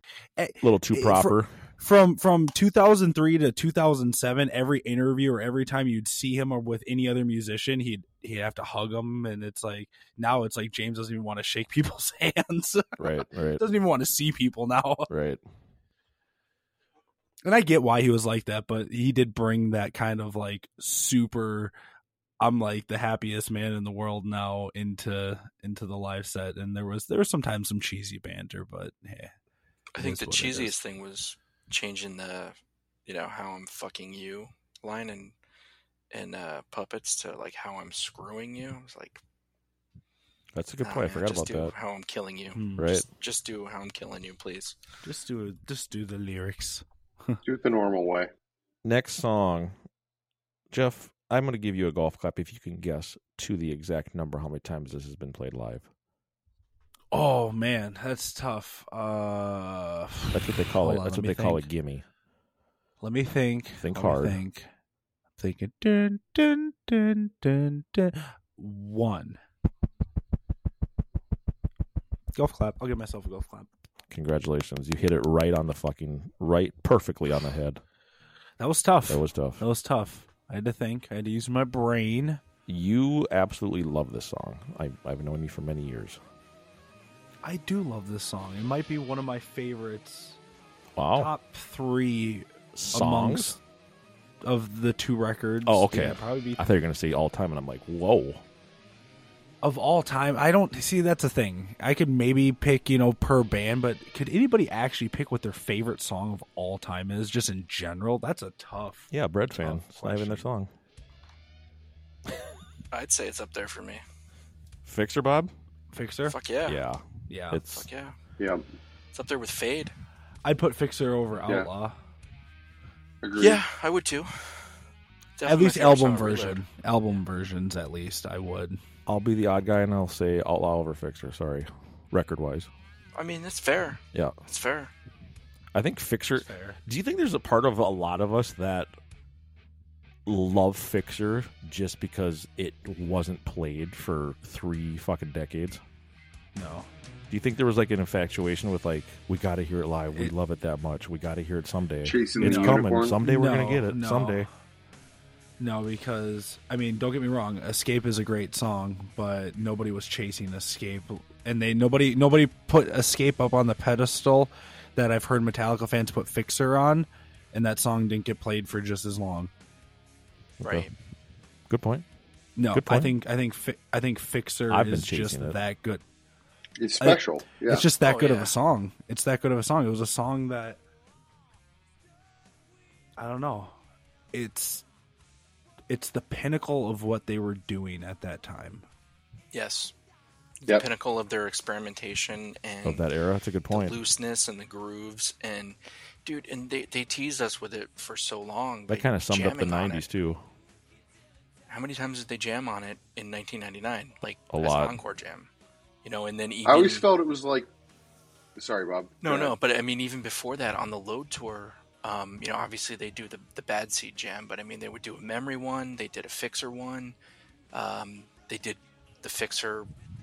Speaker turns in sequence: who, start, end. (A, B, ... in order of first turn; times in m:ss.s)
0:00.4-0:15.1 A
0:00.6-0:01.5 B
0:13.0-0:13.6 B
0:15.1-0:15.4 B
0:17.4-0:21.7 A
0:22.4-0:29.3 A
0:29.9-0:35.3 C
0:30.0-0:30.7 A
0:36.1-0:39.2 C
0:40.5-0:41.7 B
0:40.8-0:44.8 C
0:42.5-0:42.9 A
0:42.8-0:43.0 B
0:45.0-0:47.4 A
0:47.4-0:48.3 D
0:48.8-0:49.8 B
0:50.7-0:55.9 B
0:57.1-1:01.7 A
1:00.3-1:02.0 B
1:03.0-1:04.7 A
1:03.8-1:04.4 B
1:05.4-1:09.4 A
1:12.3-1:13.7 A
1:14.1-1:17.8 B
1:18.6-1:22.4 A
1:19.1-1:19.6 B
1:22.7-1:26.2 B
1:27.4-1:30.4 A
1:31.0-1:31.3 B
1:31.2-1:33.6 A
1:32.7-1:33.6 B
1:34.4-1:36.6 A
1:35.6-1:38.4 B
1:39.6-1:50.5 A
1:49.1-1:50.7 B
1:52.9-1:54.0 C
1:54.8-1:55.5 B
1:55.9-1:56.4 A
1:56.3-1:56.8 C
1:56.6-1:57.9 B
1:57.3-1:57.6 A
1:57.7-1:58.1 C
1:59.1-1:59.9 C
2:00.4-2:02.0 A
2:03.2-2:03.6 D
2:03.4-2:04.7 C
2:05.4-2:06.6 C
2:05.4-2:08.8 A
2:09.0-2:12.7 B
2:13.1-2:14.9 C
2:15.7-2:18.9 B
2:16.4-2:16.8 A
2:20.2-2:25.8 B
2:26.5-2:26.9 A
2:27.3-2:34.5 B
2:32.0-2:33.2 D
2:32.4-2:34.5 A
2:35.6-2:49.5 A
2:50.6-2:50.9 B
2:50.6-2:50.9 C
2:51.7-2:52.0 B
2:52.6-2:56.0 A
2:52.7-2:53.1 B
2:54.7-2:55.6 B
2:56.8-2:57.8 D
2:57.0-3:00.8 A
2:58.0-2:58.5 C
3:03.2-3:03.8 A
3:04.3-3:04.8 A
3:05.9-3:08.8 A
3:09.5-3:09.9 C
3:10.6-3:13.0 C
3:12.8-3:14.0 B
3:13.7-3:20.0 C
3:18.9-3:20.4 B
3:21.7-3:25.5 C
3:24.5-3:25.0 B
3:26.0-3:27.0 C
3:26.6-3:27.7 D
3:28.6-3:29.5 D
3:29.2-3:37.1 C
3:37.7-3:39.9 C